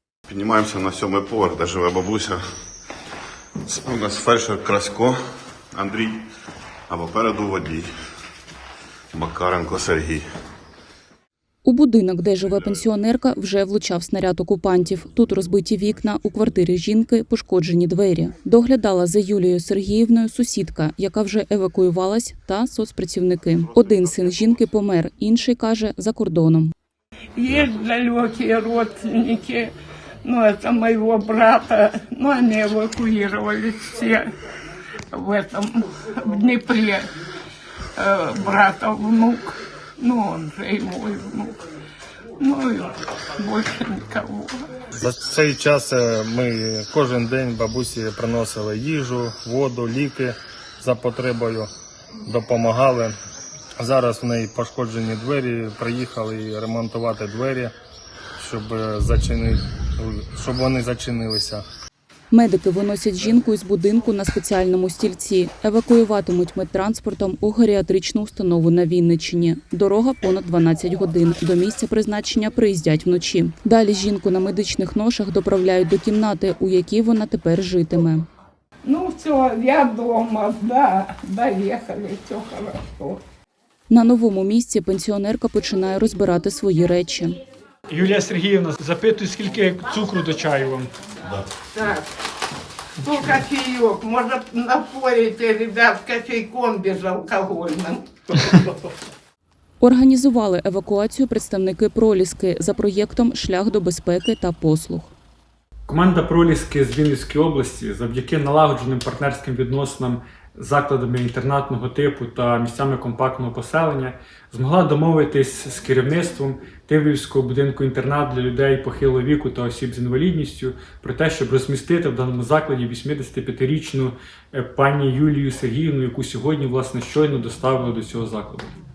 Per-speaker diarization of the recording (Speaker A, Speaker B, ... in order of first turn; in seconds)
Speaker A: 0.3-2.4, 3.6-5.2, 5.7-6.2, 6.9-7.9, 9.1-10.2
Speaker B: 11.6-26.7, 62.3-78.2, 83.9-87.4, 99.8-105.1
Speaker C: 27.4-29.7, 30.2-34.3, 35.1-37.1, 38.0-41.6, 42.4-44.7, 78.8-83.2, 91.7-92.1, 93.0-98.0
Speaker D: 44.9-51.7, 52.2-53.1, 53.8-57.7, 58.4-61.6
Speaker E: 87.9-90.9, 105.9-128.8